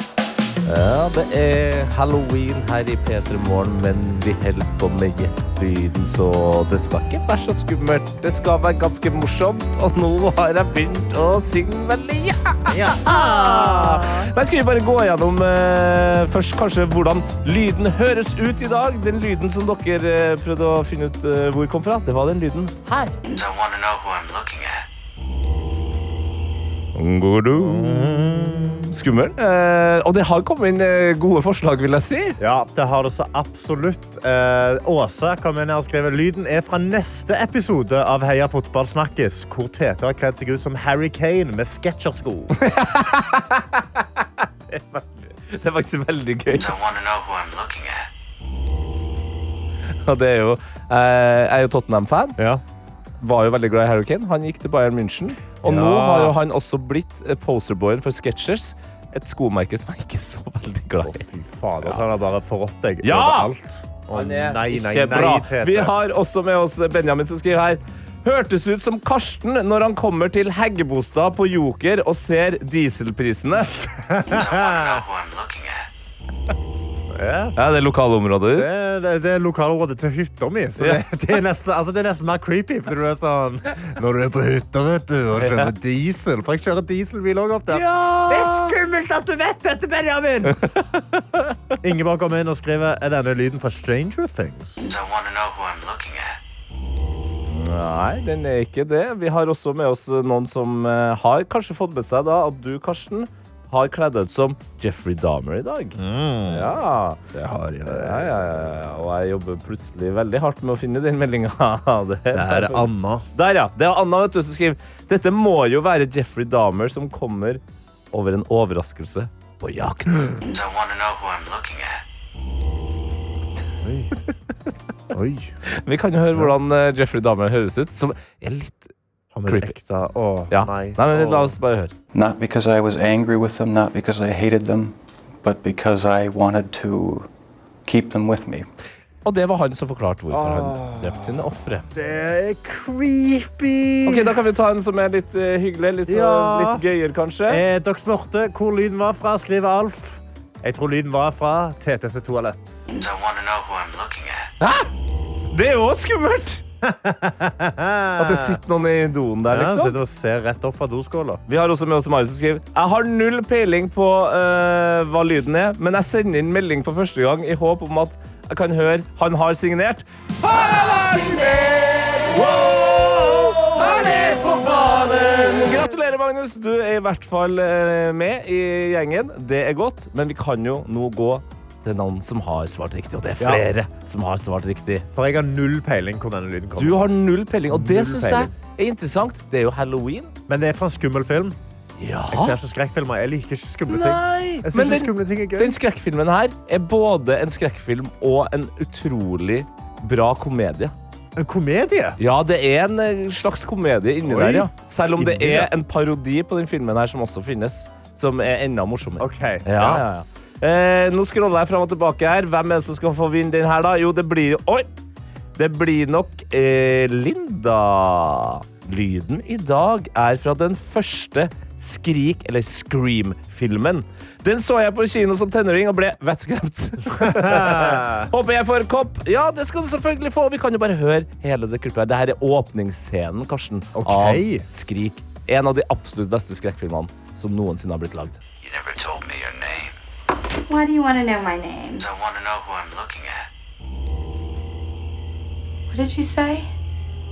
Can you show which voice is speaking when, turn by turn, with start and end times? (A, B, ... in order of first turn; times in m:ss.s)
0:00.6-0:23.2 A
0:12.7-0:14.3 B
0:23.3-0:24.9 C
0:27.0-0:28.3 A
0:27.5-0:28.9 B
0:28.8-0:32.4 A
0:32.4-0:42.6 B
0:42.6-0:46.7 A
0:46.5-0:48.1 C
0:49.9-0:52.4 A
0:53.2-1:01.2 A
0:55.6-0:56.4 B
1:01.0-1:06.0 B
1:03.0-1:03.5 A
1:04.1-1:13.7 A
1:13.8-1:15.0 B
1:14.3-1:15.9 C
1:17.1-1:17.6 B
1:17.6-1:18.7 A
1:18.6-1:31.0 B
1:20.8-1:21.0 A
1:25.4-1:25.7 A
1:27.7-1:28.8 A
1:31.8-1:34.9 B
1:34.9-1:36.4 C
1:37.5-2:00.4 A
1:46.0-1:46.8 B
1:47.4-1:48.5 B
1:52.3-1:53.3 B
2:00.5-2:02.0 C
2:03.8-2:04.1 B
2:05.1-2:05.5 B
2:05.7-2:08.9 A
2:09.3-2:11.6 B
2:09.5-2:09.8 A
2:10.5-2:11.9 A
2:12.1-2:17.3 D
2:17.8-2:18.7 D
2:19.2-2:21.9 A
2:20.3-2:21.4 B
2:21.9-2:24.4 B
2:24.0-2:27.6 A
2:26.1-2:26.8 B
2:27.5-2:32.8 B
2:33.0-2:34.5 C
2:34.6-2:34.9 A
2:35.5-2:36.6 A
2:36.8-2:38.6 B
2:38.2-2:40.0 A
2:39.5-2:41.4 B
2:41.5-3:05.1 A
3:03.4-3:03.7 B
3:05.1-3:07.1 B
3:06.8-3:10.3 A
3:07.7-3:08.5 B
3:10.5-3:11.6 B
3:12.0-3:12.6 A
3:12.3-3:15.8 B
3:13.9-3:20.9 A
3:21.4-3:22.2 B
3:22.2-3:34.9 A
3:24.2-3:25.7 B
3:29.2-3:30.0 B
3:35.6-3:58.4 A
3:47.2-3:48.3 B
3:54.0-3:54.7 B
3:58.6-4:00.0 C
4:00.7-4:02.0 E
4:02.0-4:03.5 C
4:05.9-4:06.7 E